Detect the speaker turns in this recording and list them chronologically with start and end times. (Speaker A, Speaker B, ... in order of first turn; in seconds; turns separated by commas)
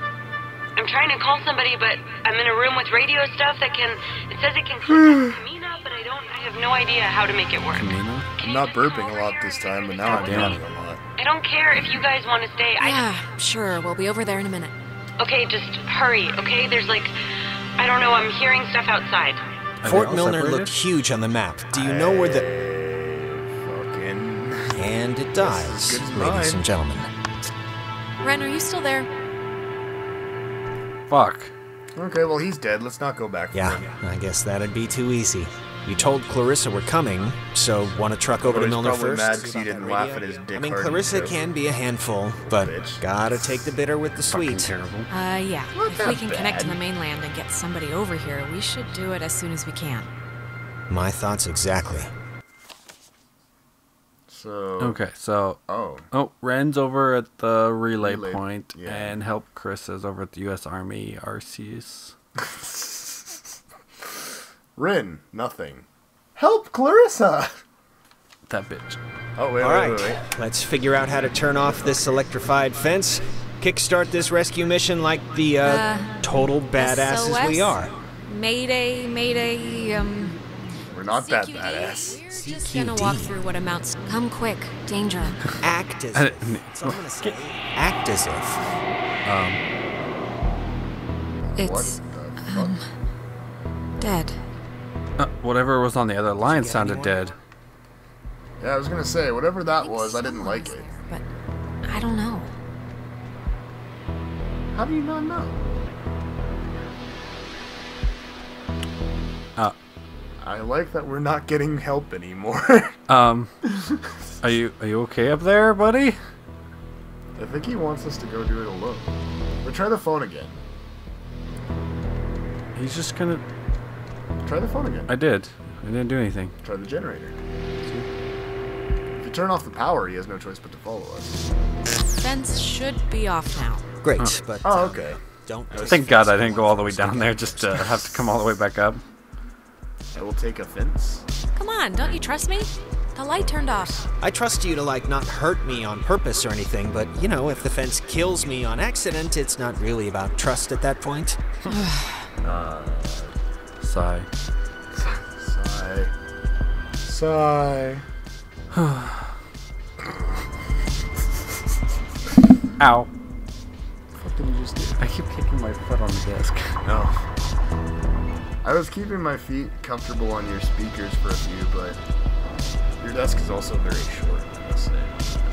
Speaker A: 0.8-10.5, Speaker B: 4.8-5.4, Speaker C: 7.7-8.3, Speaker B: 8.4-11.0, Speaker C: 10.1-10.6, Speaker A: 11.2-13.0, Speaker D: 12.8-14.7, Speaker A: 15.2-17.1, Speaker A: 17.8-19.4, Speaker C: 19.8-20.7, Speaker E: 19.8-22.5, Speaker B: 21.7-24.7, Speaker E: 24.7-27.1, Speaker B: 25.4-26.6, Speaker D: 28.2-29.1, Speaker C: 31.1-31.5, Speaker B: 31.9-33.9, Speaker E: 33.5-44.7, Speaker B: 38.4-41.4, Speaker B: 42.5-43.0, Speaker C: 44.3-45.1, Speaker D: 45.1-50.1, Speaker B: 45.7-46.8, Speaker E: 50.9-52.1, Speaker B: 54.3-55.0, Speaker C: 54.8-55.6, Speaker B: 55.7-56.1, Speaker C: 56.1-62.1, Speaker B: 58.0-59.2, Speaker B: 62.4-63.2, Speaker B: 64.8-67.6, Speaker C: 68.5-69.0, Speaker B: 69.4-70.2, Speaker E: 69.6-77.9, Speaker D: 75.6-76.2, Speaker D: 76.7-80.3, Speaker B: 80.9-82.2, Speaker D: 81.1-85.5, Speaker E: 82.2-83.3, Speaker E: 85.6-88.6, Speaker C: 86.1-87.4, Speaker C: 89.2-89.6, Speaker B: 91.5-92.7, Speaker D: 91.5-92.8, Speaker D: 94.0-94.4, Speaker C: 95.2-97.3, Speaker E: 96.4-97.3, Speaker B: 98.6-100.8, Speaker D: 99.8-101.2, Speaker D: 101.8-102.5, Speaker B: 104.7-105.6, Speaker B: 110.4-113.0, Speaker C: 113.1-113.5, Speaker B: 113.6-114.2, Speaker C: 114.4-116.2, Speaker B: 117.3-119.1, Speaker B: 119.6-120.6, Speaker C: 122.7-123.4, Speaker B: 124.4-125.1, Speaker C: 125.1-126.5, Speaker B: 126.6-127.3, Speaker B: 129.2-131.4, Speaker D: 132.1-133.8, Speaker E: 134.0-138.1, Speaker C: 134.2-134.4, Speaker B: 134.6-136.1, Speaker C: 135.9-139.0, Speaker B: 140.1-141.2, Speaker D: 141.5-144.1, Speaker B: 143.3-144.1, Speaker E: 144.2-151.4, Speaker D: 151.7-152.3, Speaker B: 152.4-153.3, Speaker C: 153.8-154.3, Speaker B: 154.9-156.1, Speaker B: 157.0-158.0, Speaker C: 158.7-159.3, Speaker C: 162.8-163.1, Speaker B: 164.1-165.0, Speaker C: 165.0-166.8, Speaker B: 166.8-167.2, Speaker B: 168.6-172.0, Speaker B: 172.9-175.3